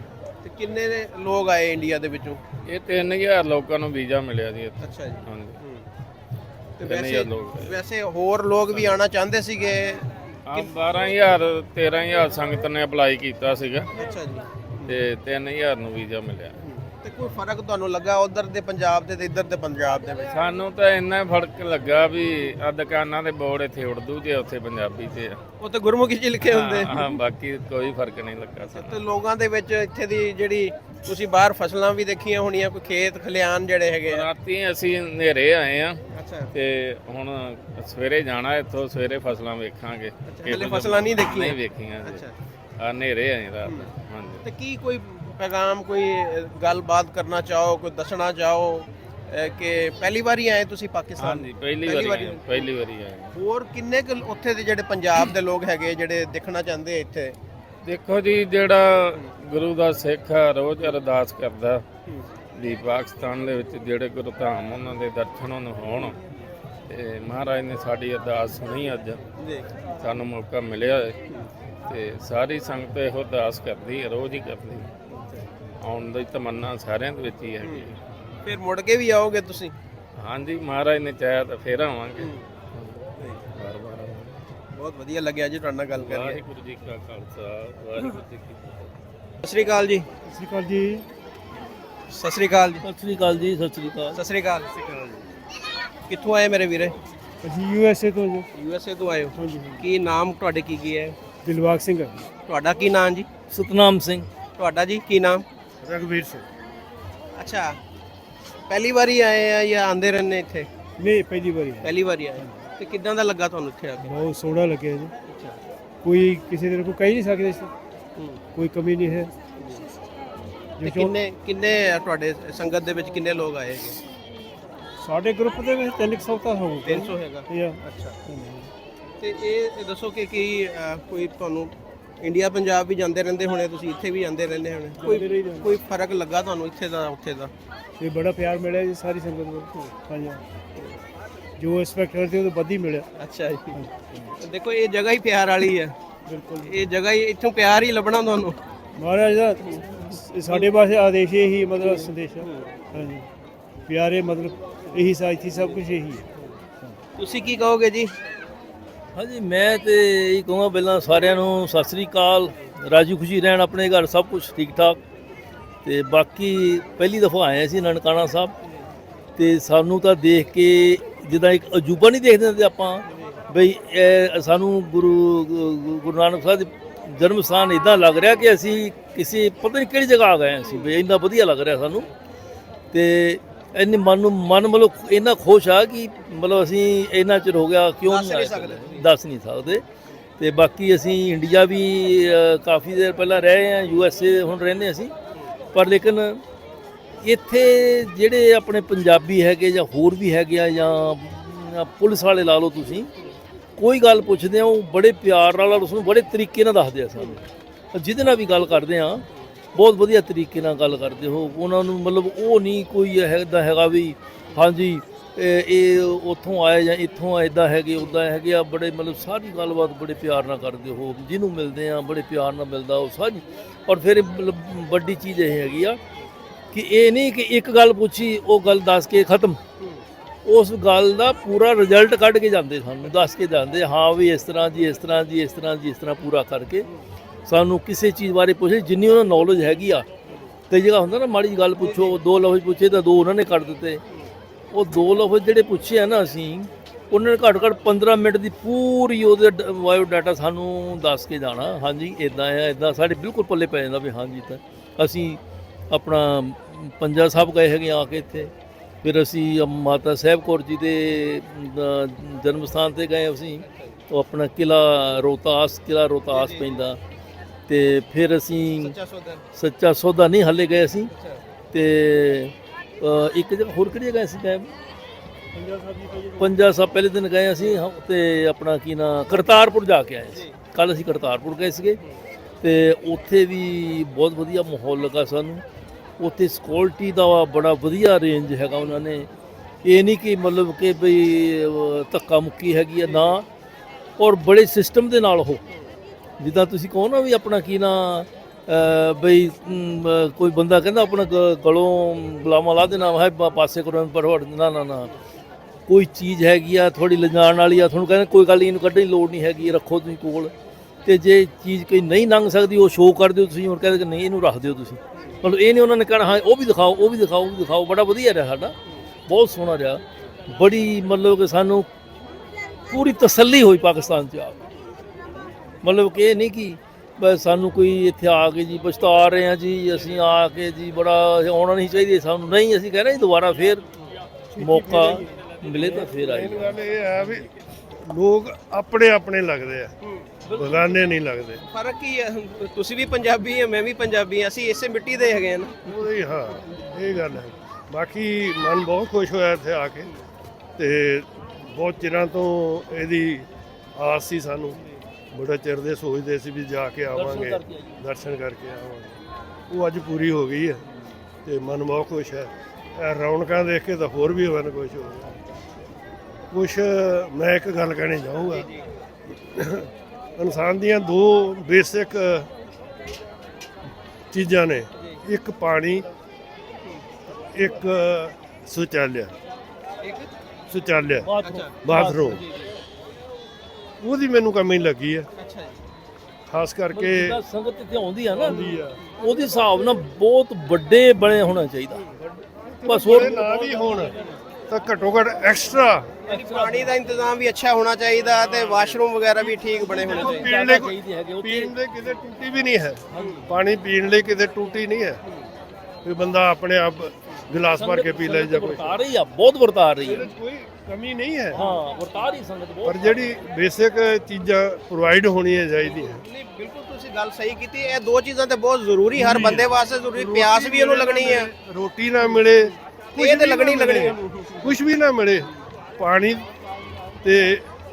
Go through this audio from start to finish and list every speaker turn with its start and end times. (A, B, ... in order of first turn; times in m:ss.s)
0:00.4-0:02.4 A
0:02.7-0:05.6 B
0:04.8-0:05.8 A
0:06.8-0:10.7 A
0:06.8-0:07.8 B
0:08.7-0:09.0 B
0:10.5-0:13.9 B
0:13.9-0:15.0 A
0:14.9-0:16.6 B
0:16.6-0:20.3 A
0:20.3-0:25.4 B
0:25.6-0:26.9 A
0:26.4-0:29.0 B
0:28.7-0:34.3 A
0:34.0-0:36.0 B
0:36.1-0:36.5 A
0:36.5-0:42.2 B
0:40.3-0:42.3 A
0:42.8-0:44.4 B
0:43.6-0:43.9 A
0:44.4-0:52.7 A
0:51.2-0:53.4 B
0:53.3-0:57.4 A
0:57.8-1:01.8 B
1:02.6-1:06.2 B
1:06.9-1:09.2 B
1:09.4-1:09.7 A
1:10.0-1:11.2 B
1:11.8-1:14.9 B
1:15.2-1:15.4 A
1:15.8-1:18.0 B
1:17.6-1:17.9 A
1:18.4-1:19.7 A
1:20.2-1:24.4 B
1:24.7-1:26.4 A
1:26.0-1:28.9 B
1:29.4-1:30.0 A
1:30.3-1:31.0 C
1:32.1-1:32.8 A
1:32.8-1:34.2 D
1:34.1-1:34.7 A
1:34.7-1:35.3 E
1:36.1-1:37.0 A
1:37.4-1:38.5 C
1:38.5-1:41.1 A
1:39.3-1:39.8 C
1:41.4-1:42.3 C
1:42.5-1:43.3 A
1:43.5-1:44.3 D
1:44.6-1:45.4 A
1:45.8-1:46.4 E
1:47.4-1:47.8 A
1:48.7-1:50.7 A
1:51.0-1:52.6 C
1:51.8-1:54.1 A
1:54.0-1:55.1 C
1:55.3-1:55.6 A
1:56.0-1:57.7 C
1:58.5-1:59.3 C
2:00.8-2:01.1 C
2:00.8-2:04.0 A
2:05.0-2:08.7 C
2:06.8-2:08.2 A
2:09.2-2:17.5 A
2:15.0-2:15.7 C
2:18.0-2:20.4 C
2:21.6-2:23.1 C
2:23.2-2:23.8 A
2:23.7-2:24.3 C
2:24.4-2:25.9 A
2:26.2-2:26.7 C
2:26.6-2:28.6 A
2:29.0-2:33.2 C
2:29.6-2:30.7 A
2:31.9-2:32.7 A
2:33.9-2:36.2 C
2:37.2-2:38.1 A
2:39.1-2:45.0 D
2:45.8-2:48.5 D
2:49.4-3:02.1 D
3:02.9-3:09.8 D
3:08.0-3:09.1 A
3:10.4-3:15.1 D
3:15.7-3:16.4 D
3:17.2-3:23.1 D
3:23.8-3:27.4 D
3:27.9-3:46.0 D
3:46.7-3:49.6 D
3:50.4-3:56.9 D
3:57.4-4:00.1 D
4:00.7-4:04.0 D
4:01.8-4:02.2 A
4:04.7-4:18.5 D
4:19.0-4:27.0 D
4:26.3-4:26.8 A
4:27.7-4:28.9 D
4:28.8-4:29.4 A
4:29.6-4:31.1 D
4:31.1-4:31.4 A
4:31.7-4:34.7 D
4:35.5-4:36.6 C
4:36.4-4:42.0 D
4:42.6-4:45.6 D
4:46.2-4:49.3 D
4:49.8-4:53.5 D
4:54.2-4:55.6 D
4:56.4-5:05.1 D
5:05.9-5:10.5 D
5:11.0-5:18.7 D
5:19.3-5:21.9 D
5:22.9-5:24.6 D
5:25.8-5:33.8 D
5:34.5-5:36.1 C
5:34.6-5:37.4 D
5:35.8-5:37.5 E
5:38.0-5:39.9 E
5:40.4-5:41.0 D
5:40.5-5:41.6 E
5:41.7-5:45.8 A
5:45.8-5:50.1 E
5:50.8-5:54.8 E
5:55.3-6:00.8 E
5:57.1-5:58.0 D
6:01.4-6:05.4 E
6:06.5-6:08.7 E
6:08.6-6:08.8 A
6:09.5-6:12.5 E
6:14.3-6:16.1 E
6:17.3-6:19.3 E
6:20.0-6:20.3 A
6:20.7-6:21.3 E
6:21.2-6:22.4 D
6:21.4-6:21.8 A
6:21.8-6:22.4 E
6:24.0-6:25.3 E
6:25.4-6:25.7 A
6:26.5-6:27.4 E
6:26.9-6:28.6 D
6:28.3-6:29.0 E
6:29.2-6:32.2 D
6:32.7-6:34.1 E
6:32.8-6:34.4 D
6:34.7-6:36.1 E
6:36.3-6:37.0 D
6:36.3-6:40.5 A
6:39.9-6:41.7 D
6:40.0-6:45.2 E
6:43.1-6:43.4 D
6:43.2-6:43.4 A
6:46.0-6:49.0 E
6:47.8-6:50.3 D
6:50.0-6:51.6 E
6:51.5-6:53.3 D
6:52.8-6:56.2 E
6:55.8-7:01.5 A
6:59.1-7:05.5 E
7:03.2-7:04.7 A
7:06.0-7:06.5 E
7:07.2-7:07.7 E